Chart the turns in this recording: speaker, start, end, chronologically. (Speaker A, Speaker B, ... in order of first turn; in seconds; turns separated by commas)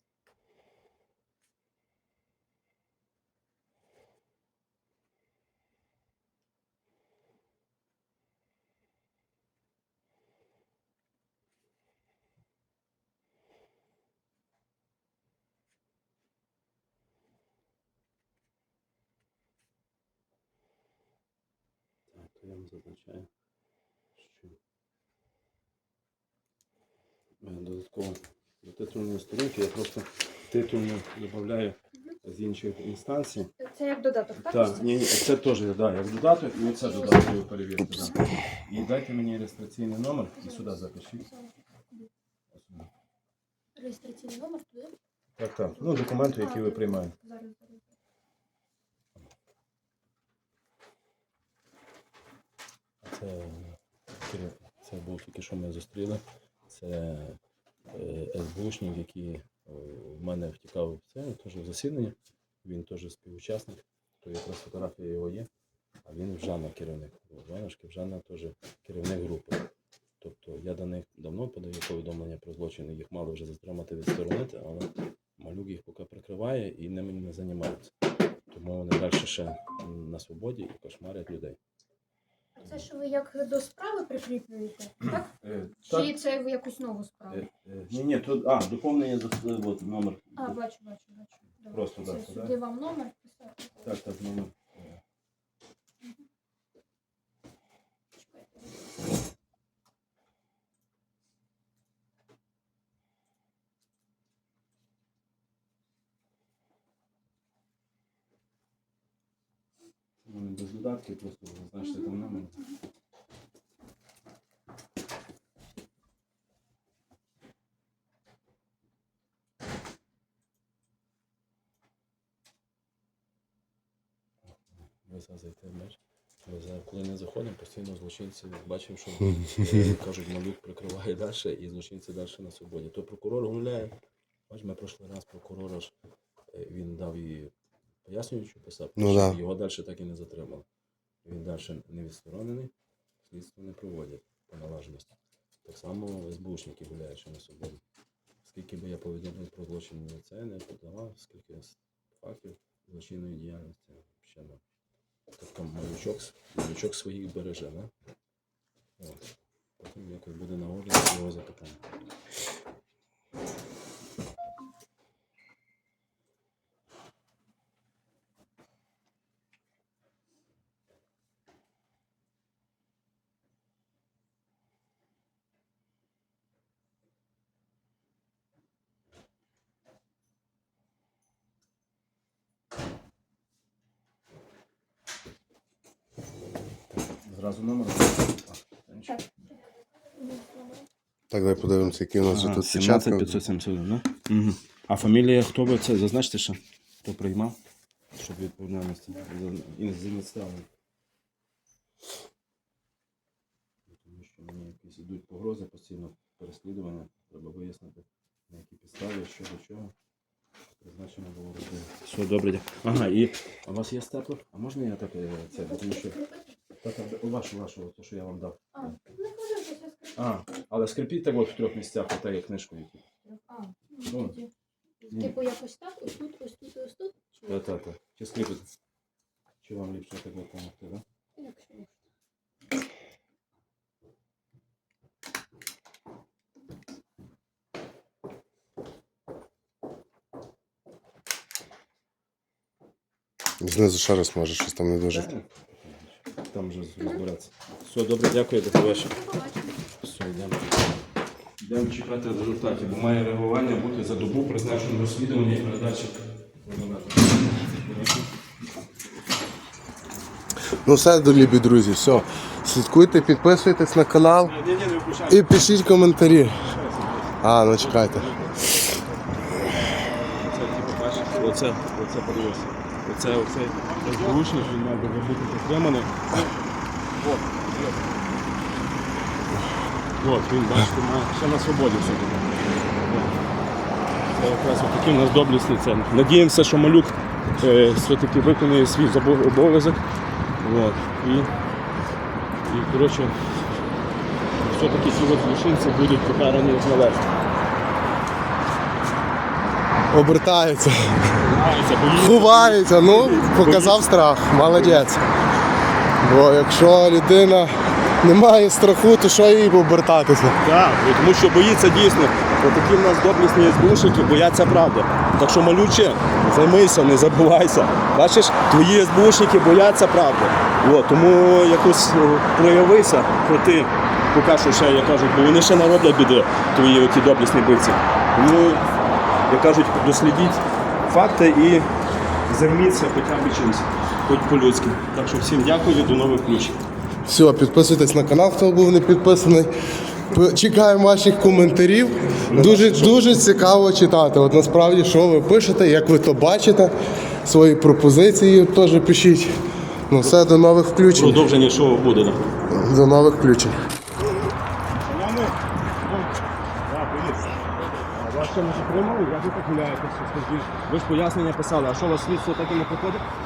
Speaker A: 22.1-23.3, Speaker A: 24.2-24.6, Speaker A: 27.4-33.5, Speaker B: 33.6-35.0, Speaker A: 34.4-41.3, Speaker B: 36.6-37.3, Speaker B: 37.9-38.2, Speaker B: 40.4-42.1, Speaker A: 42.5-42.9, Speaker B: 43.8-44.9, Speaker A: 45.4-47.1, Speaker B: 45.8-47.9, Speaker A: 53.0-57.4, Speaker A: 57.9-65.5, Speaker A: 66.0-69.6, Speaker A: 70.2-77.9, Speaker A: 78.5-81.6, Speaker B: 82.6-85.3, Speaker A: 85.1-86.1, Speaker B: 85.9-87.5, Speaker A: 87.3-90.6, Speaker B: 90.4-94.0, Speaker A: 91.7-92.5, Speaker A: 93.8-95.0, Speaker B: 98.2-98.8, Speaker A: 110.2-112.5, Speaker A: 124.5-133.9, Speaker A: 134.5-135.9, Speaker A: 136.5-137.5, Speaker A: 138.0-140.7, Speaker C: 139.0-139.4, Speaker A: 141.2-142.7, Speaker A: 143.2-147.8, Speaker A: 148.4-154.6, Speaker A: 155.4-157.9, Speaker A: 159.0-161.8, Speaker A: 187.0-189.2, Speaker B: 190.2-190.8, Speaker C: 191.3-193.4, Speaker A: 192.2-197.6, Speaker A: 198.1-200.7, Speaker A: 203.9-209.9, Speaker A: 210.8-216.2, Speaker B: 215.5-216.6, Speaker A: 216.8-218.9, Speaker B: 218.7-220.3, Speaker A: 220.2-223.0, Speaker B: 223.2-224.5, Speaker A: 224.1-224.4, Speaker B: 225.0-227.7, Speaker A: 227.5-228.7, Speaker A: 229.6-231.0, Speaker B: 231.4-232.0, Speaker C: 243.6-245.3, Speaker A: 245.1-249.2, Speaker B: 248.7-249.8, Speaker A: 250.0-251.0, Speaker A: 251.6-258.3, Speaker C: 260.8-264.6, Speaker A: 264.5-265.7, Speaker C: 265.3-266.7, Speaker A: 266.6-269.8, Speaker C: 267.4-268.3, Speaker A: 270.3-276.6, Speaker A: 277.1-278.1, Speaker A: 280.2-282.4, Speaker A: 283.0-283.4, Speaker A: 284.3-290.0, Speaker A: 290.6-291.5, Speaker A: 292.7-293.4, Speaker A: 294.6-297.3, Speaker C: 300.1-301.4, Speaker A: 301.4-304.1, Speaker C: 302.1-305.2, Speaker C: 306.2-310.6, Speaker A: 310.6-328.8, Speaker A: 329.5-331.9, Speaker A: 332.5-336.8, Speaker C: 337.2-339.7, Speaker C: 340.3-351.4, Speaker A: 342.5-343.2, Speaker A: 351.1-352.4, Speaker C: 352.7-353.8, Speaker A: 355.1-363.2